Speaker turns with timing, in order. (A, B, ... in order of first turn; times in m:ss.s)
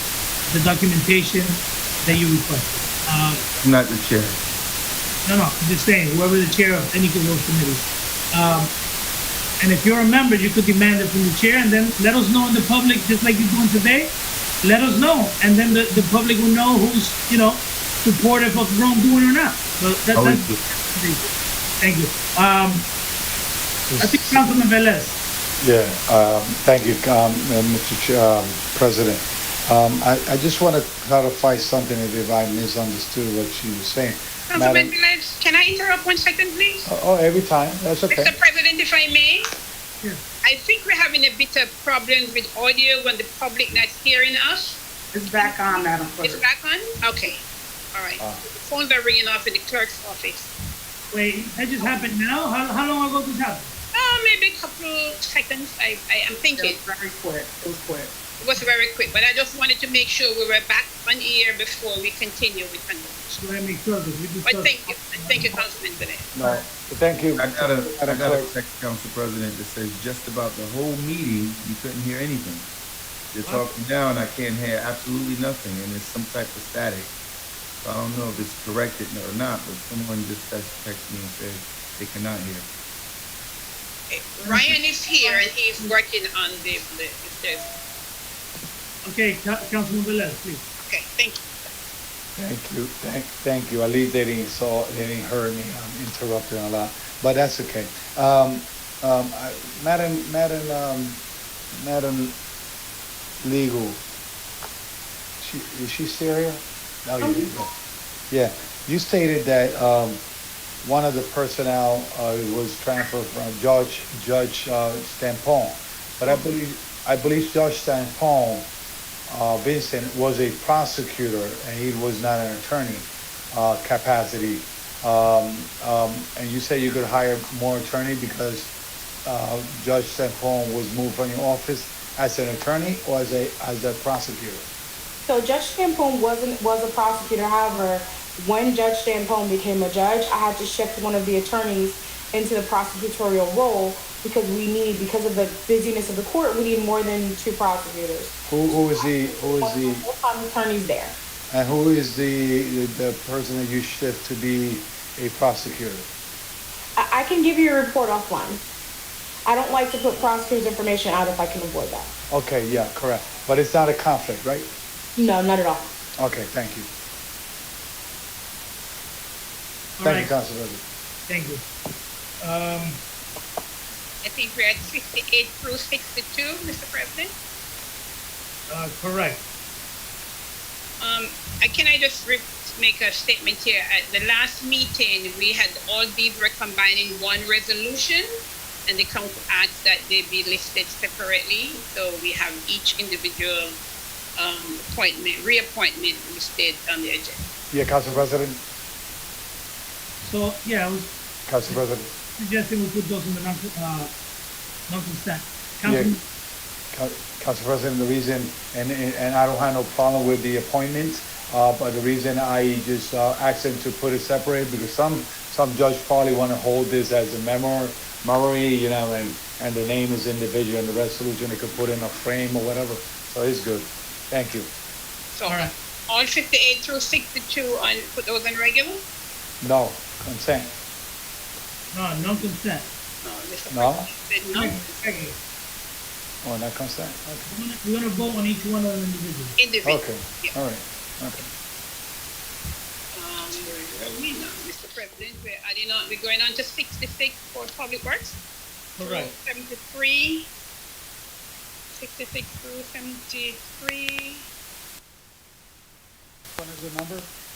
0:00.5-0:03.4 A
0:03.6-0:04.4 B
0:05.2-0:08.7 A
0:09.6-0:21.2 A
0:20.1-0:20.6 B
0:21.8-0:22.9 A
0:23.9-0:24.4 C
0:24.0-0:25.2 A
0:25.6-0:34.9 C
0:34.5-0:36.8 D
0:36.9-0:38.3 C
0:38.1-0:39.4 D
0:40.5-0:44.8 D
0:45.1-0:46.4 E
0:45.4-0:47.4 D
0:47.9-0:50.5 D
0:51.1-0:53.7 A
0:54.0-0:56.8 D
0:56.4-0:58.1 E
0:58.4-1:03.4 D
1:03.4-1:06.0 A
1:04.4-1:06.3 D
1:06.4-1:08.5 C
1:07.4-1:12.7 B
1:13.3-1:17.1 B
1:17.8-1:22.7 B
1:24.1-1:27.7 D
1:24.4-1:26.0 A
1:29.0-1:30.6 A
1:30.9-1:31.7 D
1:32.4-1:41.2 C
1:41.7-1:42.4 C
1:43.4-1:44.0 C
1:45.4-1:47.7 C
1:47.2-1:47.6 F
1:48.3-1:50.2 C
1:50.8-1:58.7 C
1:59.3-2:08.7 C
2:09.3-2:14.7 C
2:15.3-2:31.2 F
2:28.5-2:30.0 C
2:31.5-2:36.1 C
2:37.0-2:38.6 F
2:39.5-2:42.1 F
2:42.3-2:44.7 C
2:45.2-2:45.9 F
2:46.2-2:46.9 C
2:50.0-2:50.4 A
2:50.0-2:50.8 C
2:51.3-2:51.6 A
2:52.4-2:53.0 A
2:54.2-2:57.3 D
2:58.7-2:59.4 A
3:01.0-3:08.2 D
3:08.9-3:13.8 D
3:14.4-3:17.5 D
3:17.7-3:18.6 C
3:20.2-3:21.1 A
3:21.5-3:22.1 C
3:21.6-3:24.1 A
3:24.9-3:26.2 A
3:25.9-3:26.1 C
3:26.9-3:44.7 C
3:45.3-3:49.0 D
3:45.4-3:45.7 A
3:49.6-3:50.7 C
3:51.9-3:52.9 A
3:53.2-3:55.0 D
3:53.7-3:54.1 C
3:54.5-3:55.4 A
3:56.4-3:57.5 C
3:57.5-3:59.6 A
3:59.6-4:00.5 D
3:59.8-4:01.5 C
4:03.1-4:08.4 D
4:09.0-4:09.3 A
4:09.0-4:10.5 D
4:12.0-4:14.5 D
4:16.6-4:17.3 C